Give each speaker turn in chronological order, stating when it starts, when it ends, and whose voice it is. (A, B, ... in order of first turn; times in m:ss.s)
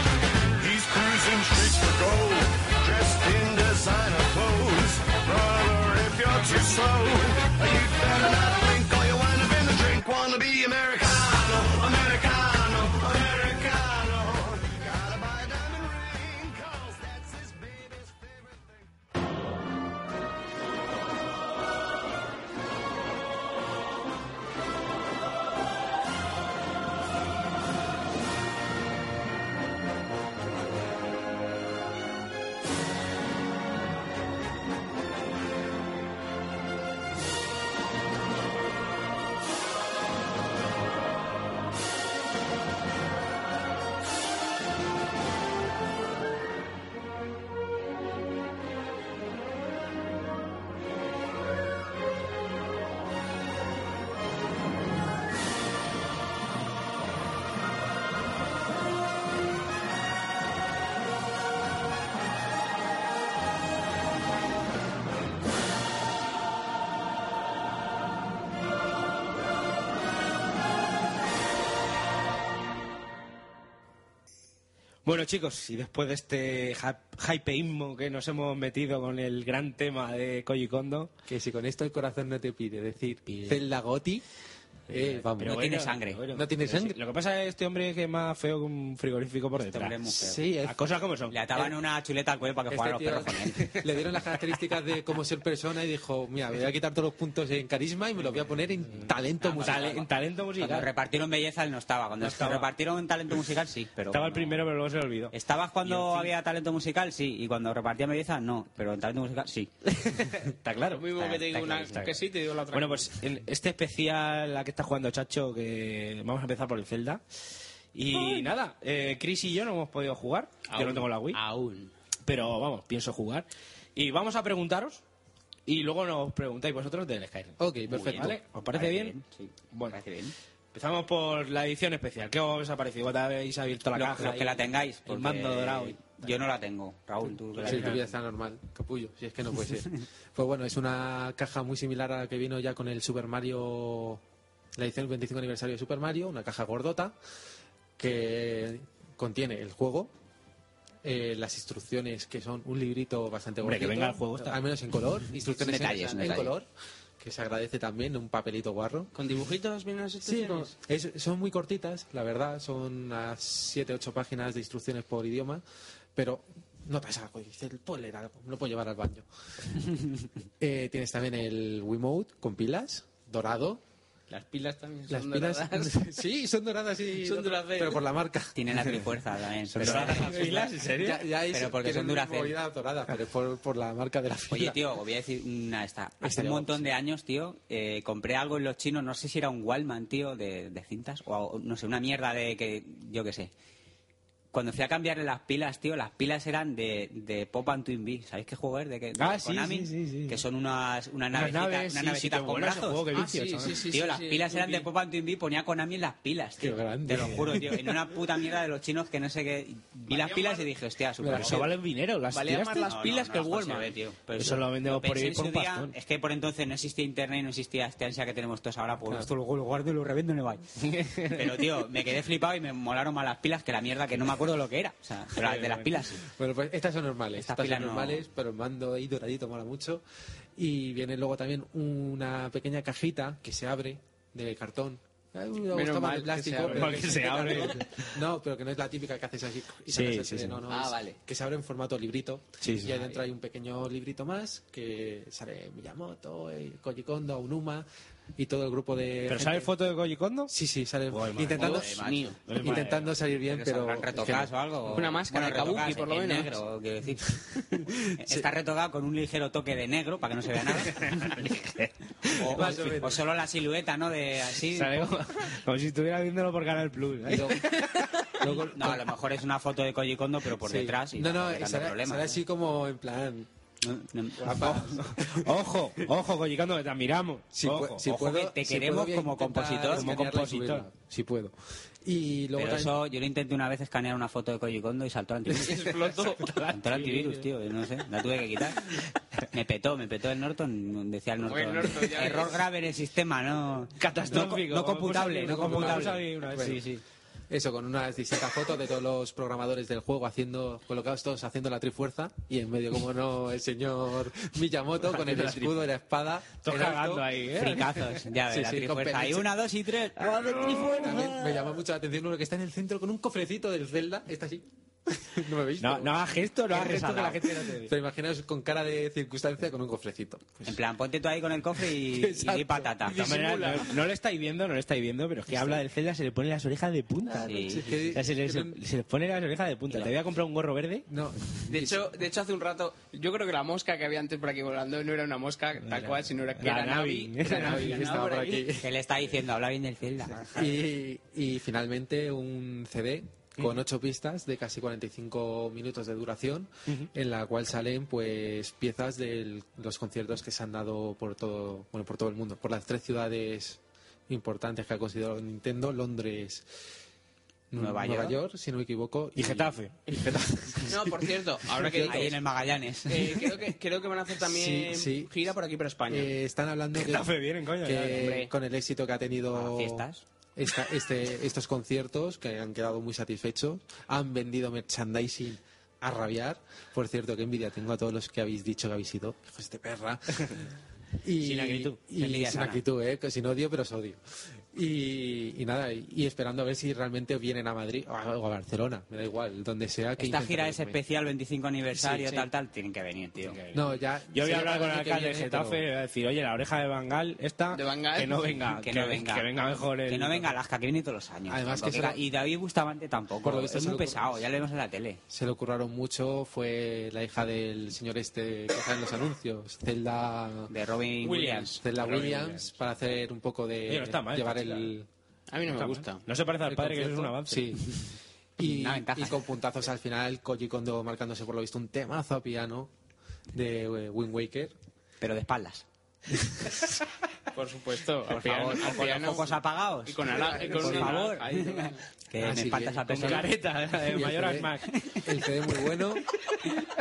0:00.6-0:18.8 A
1:15.0-1:21.1 B
1:21.3-1:24.2 C
1:23.3-1:23.6 B
1:24.9-1:25.7 C
1:24.9-1:30.0 B
1:25.4-1:26.2 D
1:26.3-1:27.0 C
1:29.7-1:30.4 D
1:30.2-1:30.8 C
1:30.7-1:31.4 B
1:31.3-1:33.7 D
1:32.7-1:40.0 C
1:39.4-1:40.1 D
1:39.6-1:40.9 B
1:40.6-1:44.6 D
1:42.2-1:42.7 B
1:44.1-1:46.3 B
1:45.3-1:49.7 D
1:49.9-1:51.1 B
1:50.9-1:53.2 E
1:51.2-1:52.2 D
1:52.7-1:57.2 B
1:57.9-2:01.4 B
1:58.1-1:58.5 E
2:00.7-2:01.9 E
2:02.3-2:05.0 B
2:05.7-2:07.6 B
2:07.6-2:08.4 C
2:07.9-2:10.4 D
2:08.1-2:09.2 B
2:09.7-2:10.0 B
2:10.7-2:16.1 B
2:14.0-2:18.1 D
2:17.6-2:18.0 B
2:17.6-2:24.2 C
2:24.8-2:27.2 C
2:28.0-2:30.1 C
2:31.0-2:36.7 C
2:33.6-2:34.6 B
2:35.6-2:36.6 D
2:35.9-2:36.1 E
2:37.2-2:39.1 C
2:39.2-2:40.7 E
2:40.2-2:45.6 C
2:46.2-2:49.3 C
2:50.6-2:53.8 C
2:54.3-2:56.0 E
2:55.1-2:58.9 C
2:57.2-2:58.0 E
2:58.6-3:00.8 D
2:59.8-3:01.2 B
2:59.8-3:04.8 C
3:01.5-3:02.6 D
3:04.5-3:13.5 D
3:06.2-3:06.9 C
3:14.5-3:23.1 D
3:19.2-3:20.4 B
3:21.3-3:23.8 B
3:23.1-3:24.9 E
3:23.8-3:31.7 D
3:26.6-3:27.7 C
3:30.1-3:30.7 E
3:31.2-3:31.6 C
3:31.3-3:32.9 B
3:32.3-3:33.9 E
3:32.8-3:40.7 D
3:34.4-3:35.9 B
3:40.8-3:41.5 B
3:41.3-3:46.2 D
3:45.4-3:45.9 B
3:46.3-3:50.0 C
3:47.4-3:48.2 D
3:50.6-4:09.7 C
3:55.7-3:57.8 E
3:56.6-3:58.1 B
3:59.9-4:00.6 B
4:00.7-4:01.2 E
4:02.6-4:03.1 B
4:09.3-4:10.5 B
4:10.5-4:12.0 C
4:11.1-4:11.8 B
4:11.5-4:12.8 D
4:11.6-4:12.4 E
4:12.4-4:13.1 B
4:12.6-4:14.5 C
4:13.5-4:17.4 D
4:14.9-4:16.5 E
4:18.1-4:21.5 D
4:21.1-4:22.9 B
4:22.3-4:25.1 D
4:22.5-4:23.2 C
4:24.7-4:28.3 B
4:27.3-4:27.7 C
4:28.4-4:29.0 C
4:28.4-4:32.4 D
4:30.6-4:33.5 C
4:33.8-4:35.0 D
4:34.4-4:35.5 C
4:34.8-4:38.0 B
4:37.5-4:43.0 C
4:38.0-4:40.2 D
4:39.9-4:40.9 B
4:42.6-4:46.2 D
4:45.5-4:47.4 B
4:45.8-4:46.5 E
4:46.7-4:48.9 D
4:49.5-4:56.3 D
4:51.4-4:52.6 E
4:54.0-4:57.0 B
4:55.4-4:56.8 C
4:57.5-5:07.3 C
5:05.1-5:05.8 B
5:06.6-5:08.1 B
5:07.6-5:10.6 D
5:08.5-5:09.5 C
5:10.2-5:11.6 B
5:10.3-5:14.7 C
5:15.2-5:16.2 C
5:15.8-5:17.9 B
5:16.7-5:20.8 C
5:20.7-5:23.3 D
5:22.1-5:23.1 C
5:23.1-5:27.6 B
5:23.2-5:23.8 E
5:27.3-5:28.8 C
5:27.4-5:28.0 D
5:28.1-5:31.0 B
5:31.1-5:32.1 C
5:31.7-5:38.7 E
5:35.8-5:38.1 B
5:37.5-5:38.9 C
5:38.8-5:40.8 D
5:40.5-5:56.6 C
5:57.7-6:00.9 C
5:57.8-5:58.4 D
5:59.4-6:00.9 B
6:00.9-6:02.4 E
6:01.9-6:02.2 C
6:02.0-6:03.4 D
6:03.1-6:06.3 E
6:04.4-6:05.3 C
6:06.1-6:10.1 C
6:07.0-6:08.3 B
6:08.1-6:08.5 E
6:09.5-6:10.2 D
6:10.6-6:20.6 C
6:21.2-6:24.2 C
6:21.4-6:22.0 B
6:22.2-6:22.8 D
6:24.7-6:31.0 C
6:30.2-6:33.6 D
6:32.0-6:32.5 C
6:33.4-6:40.5 B
6:33.7-6:35.8 C
6:37.7-6:38.6 E
6:38.8-6:39.5 D
6:40.1-6:45.2 D
6:41.5-6:42.2 C
6:43.4-6:44.4 C
6:45.3-6:50.7 C
6:50.7-6:51.8 D
6:51.2-6:52.7 B
6:51.8-6:55.1 C
6:53.9-6:54.9 B
6:55.5-6:56.3 E
6:55.7-6:57.8 B
6:56.7-6:57.8 C
6:58.6-7:02.9 C
6:58.6-6:59.4 D
7:03.5-7:04.8 C
7:05.2-7:05.8 D
7:07.5-7:12.0 E
7:08.3-7:13.5 D
7:12.4-7:13.5 C
7:13.1-7:14.9 B
7:14.0-7:14.7 C
7:15.2-7:16.2 C